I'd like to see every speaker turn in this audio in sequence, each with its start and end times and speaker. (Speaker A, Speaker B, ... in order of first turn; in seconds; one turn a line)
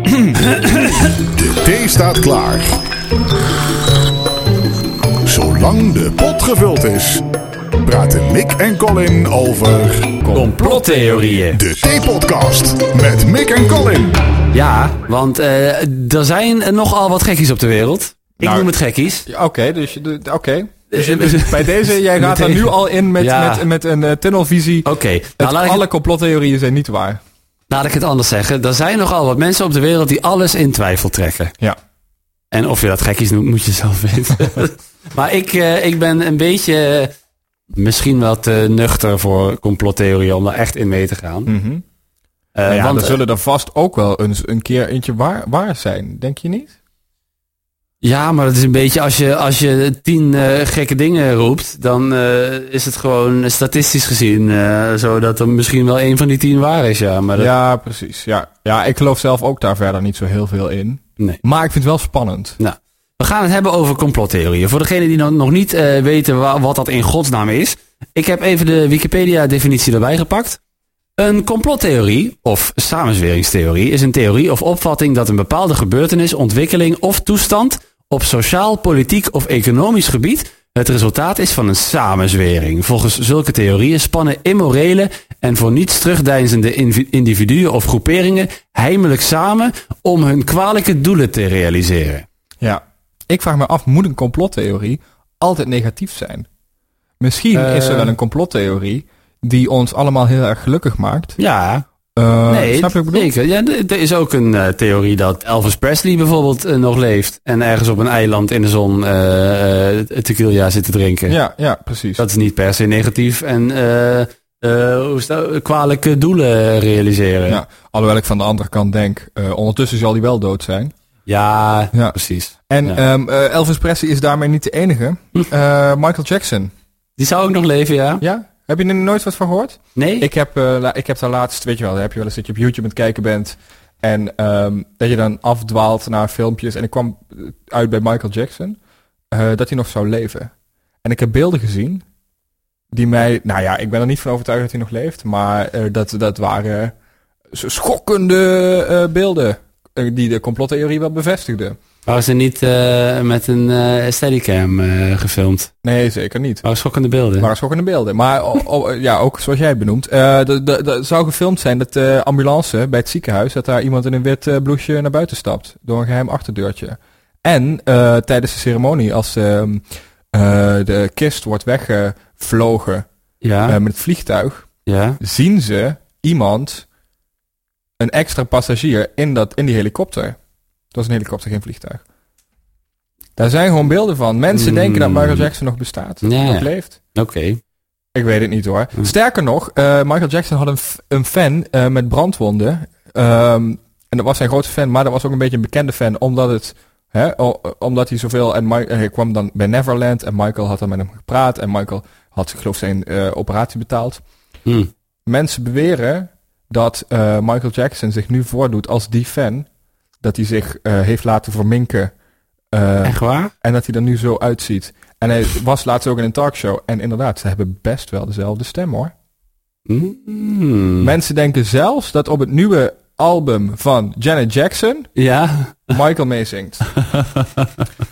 Speaker A: 0.5-1.1
Speaker B: 1.4-2.8
Speaker B: 5.2-7.2
Speaker B: 7.8-10.1
Speaker C: 10.2-11.4
Speaker A: 10.3-11.6
Speaker B: 11.5-14.2
Speaker A: 14.5-19.2
Speaker C: 18.4-18.7
Speaker C: 19.3-27.2
Speaker A: 20.9-23.6
Speaker A: 24.9-25.8
Speaker A: 27.7-31.5
Speaker A: 32.5-37.1
Speaker A: 37.8-41.5
Speaker C: 41.5-41.8
Speaker A: 42.5-43.2
Speaker C: 42.7-46.7
Speaker A: 48.0-57.5
Speaker C: 57.4-62.6
Speaker A: 62.6-70.6
Speaker A: 71.2-92.2
Speaker C: 92.6-96.5
Speaker C: 97.2-101.3
Speaker A: 97.5-98.1
Speaker A: 101.4-101.8
Speaker C: 102.2-103.3
Speaker A: 102.5-111.3
Speaker C: 111.3-112.2
Speaker A: 112.2-117.6
Speaker C: 117.5-120.9
Speaker A: 121.3-123.0
Speaker C: 122.7-126.7
Speaker A: 127.2-128.2
Speaker C: 128.2-138.8
Speaker A: 129.9-130.3
Speaker C: 139.3-140.5
Speaker C: 141.0-142.0
Speaker C: 142.9-146.9
Speaker C: 147.5-151.8
Speaker A: 152.1-155.7
Speaker C: 155.8-156.6
Speaker A: 156.6-157.5
Speaker C: 157.4-169.8
Speaker C: 170.3-173.1
Speaker A: 173.4-173.8
Speaker C: 173.7-174.7
Speaker A: 174.9-175.2
Speaker C: 175.2-176.8
Speaker C: 178.0-180.4
Speaker C: 180.9-182.0
Speaker C: 183.4-186.9
Speaker A: 184.5-185.5
Speaker A: 186.2-187.6
Speaker C: 188.1-204.2
Speaker A: 204.7-204.9
Speaker C: 205.2-209.7
Speaker C: 210.2-212.1
Speaker C: 212.7-219.1
Speaker A: 213.0-213.5
Speaker A: 219.9-221.1
Speaker C: 221.0-225.1
Speaker A: 225.2-226.0
Speaker C: 225.9-226.9
Speaker A: 227.1-227.6